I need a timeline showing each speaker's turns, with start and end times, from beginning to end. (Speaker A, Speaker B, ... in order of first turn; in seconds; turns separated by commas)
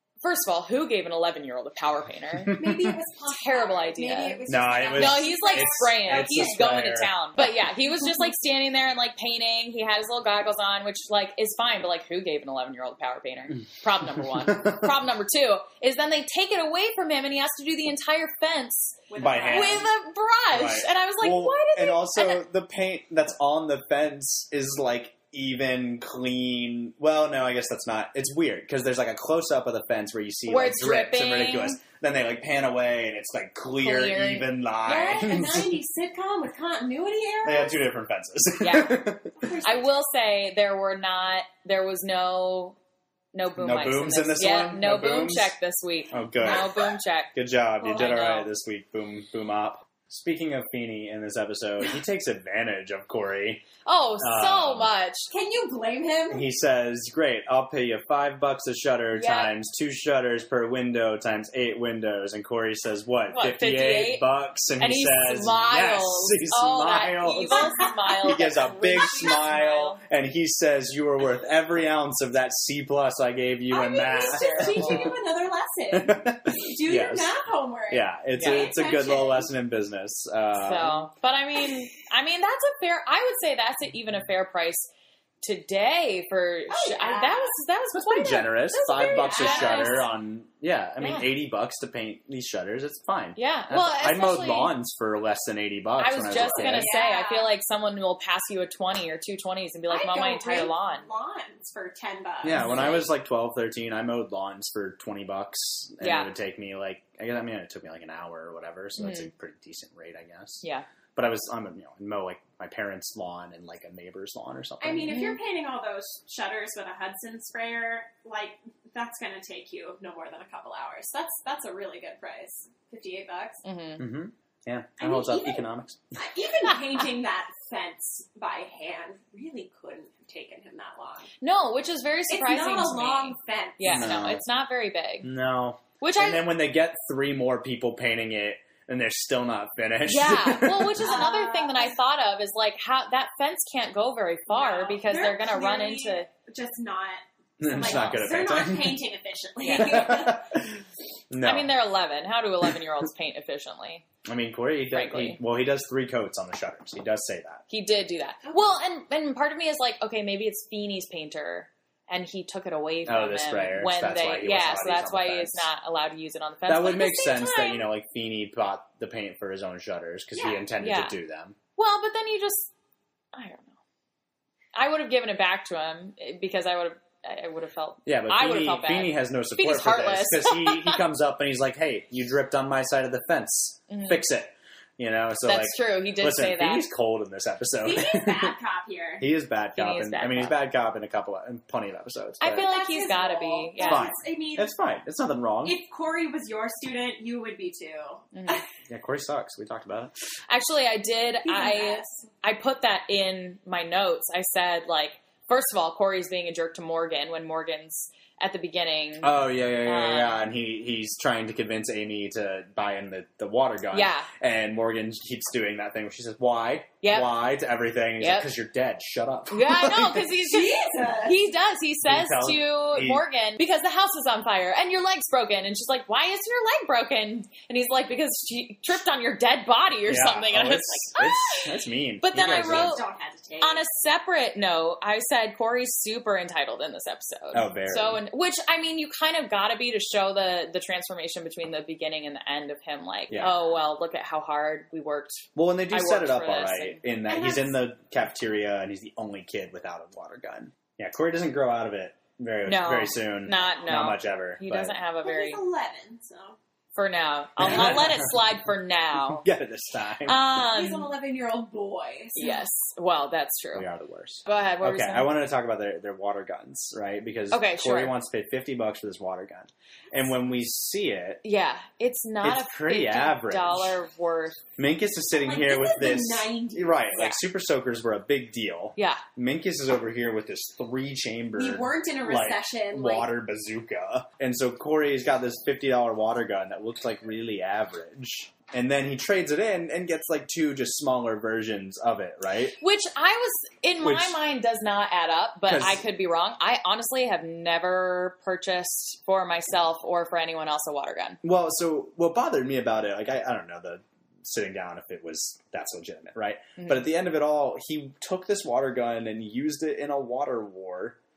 Speaker A: 0.2-2.7, Speaker B: 2.5-2.9, Speaker C: 2.5-6.6, Speaker A: 3.3-22.4, Speaker B: 4.5-7.1, Speaker B: 14.4-14.9, Speaker C: 19.1-19.9, Speaker B: 19.2-19.9, Speaker B: 20.5-35.7, Speaker A: 30.5-31.8, Speaker A: 33.8-34.5, Speaker C: 34.9-37.9, Speaker B: 37.4-39.3, Speaker A: 38.6-39.1, Speaker C: 39.4-40.0, Speaker A: 39.6-42.8, Speaker A: 43.3-48.5, Speaker B: 43.6-45.5, Speaker B: 46.1-46.8, Speaker C: 46.4-46.9, Speaker B: 47.3-53.7, Speaker A: 53.9-55.3, Speaker B: 54.2-54.9, Speaker C: 55.3-56.5, Speaker B: 56.3-75.0, Speaker A: 59.1-59.5, Speaker A: 63.3-64.3, Speaker A: 64.8-70.0, Speaker C: 67.5-68.2, Speaker C: 73.7-79.5, Speaker A: 74.2-75.1, Speaker B: 75.9-77.3, Speaker B: 77.9-81.1, Speaker A: 78.4-78.8, Speaker A: 80.5-84.9, Speaker A: 85.4-90.1, Speaker C: 86.7-87.6, Speaker B: 87.9-96.9, Speaker C: 88.7-90.1, Speaker A: 91.0-91.3, Speaker A: 93.4-94.7, Speaker A: 96.0-101.1, Speaker C: 96.4-97.5, Speaker C: 99.9-103.0, Speaker B: 102.4-110.6, Speaker A: 102.5-103.0, Speaker A: 106.0-106.3, Speaker A: 109.0-109.3, Speaker B: 111.2-115.2, Speaker C: 114.8-123.6, Speaker A: 115.1-115.4, Speaker A: 123.7-124.0, Speaker B: 124.0-126.0, Speaker C: 125.0-131.3, Speaker A: 131.4-135.3, Speaker C: 132.3-134.2, Speaker B: 133.9-134.4, Speaker B: 135.2-141.2, Speaker A: 136.0-136.5, Speaker A: 140.1-146.3, Speaker C: 141.0-141.9, Speaker C: 144.5-150.6, Speaker B: 147.6-149.0, Speaker A: 149.6-150.1, Speaker B: 149.8-150.6, Speaker B: 151.3-151.7, Speaker A: 151.4-154.1, Speaker B: 154.2-157.7, Speaker A: 154.9-155.4, Speaker A: 157.7-167.8, Speaker B: 163.1-165.7, Speaker B: 166.7-171.6, Speaker A: 170.4-171.2, Speaker A: 171.8-172.7, Speaker A: 173.3-173.7, Speaker A: 174.7-181.0, Speaker B: 178.1-188.5, Speaker A: 183.9-184.2, Speaker A: 185.5-186.9, Speaker C: 187.8-189.3, Speaker B: 189.2-192.7, Speaker A: 189.8-190.6, Speaker A: 192.4-194.1, Speaker C: 192.6-194.7, Speaker B: 193.8-195.8, Speaker C: 195.6-198.7, Speaker A: 198.3-198.6, Speaker B: 198.9-200.1, Speaker A: 200.5-210.5, Speaker C: 201.4-202.2, Speaker B: 209.2-220.2, Speaker A: 213.9-214.3, Speaker A: 217.0-217.3, Speaker A: 218.2-218.5, Speaker A: 219.5-233.1, Speaker C: 220.4-221.4, Speaker B: 222.1-223.2, Speaker B: 230.1-233.0, Speaker C: 232.5-233.8, Speaker A: 233.6-247.0, Speaker B: 237.5-238.2, Speaker B: 245.6-255.0, Speaker C: 247.3-247.8, Speaker A: 252.7-255.6, Speaker C: 255.2-256.6, Speaker A: 256.9-259.4, Speaker B: 257.6-258.3, Speaker B: 259.3-260.4, Speaker A: 260.3-261.1, Speaker C: 260.7-262.6, Speaker A: 262.4-263.9, Speaker B: 263.8-271.4, Speaker A: 264.5-265.3, Speaker A: 267.5-268.1, Speaker A: 271.4-274.7, Speaker B: 272.4-274.0, Speaker B: 274.8-292.8, Speaker C: 275.3-277.1, Speaker A: 279.0-279.2, Speaker C: 281.6-283.3, Speaker A: 292.8-301.4, Speaker B: 294.0-294.4, Speaker B: 295.7-296.0, Speaker B: 301.4-311.2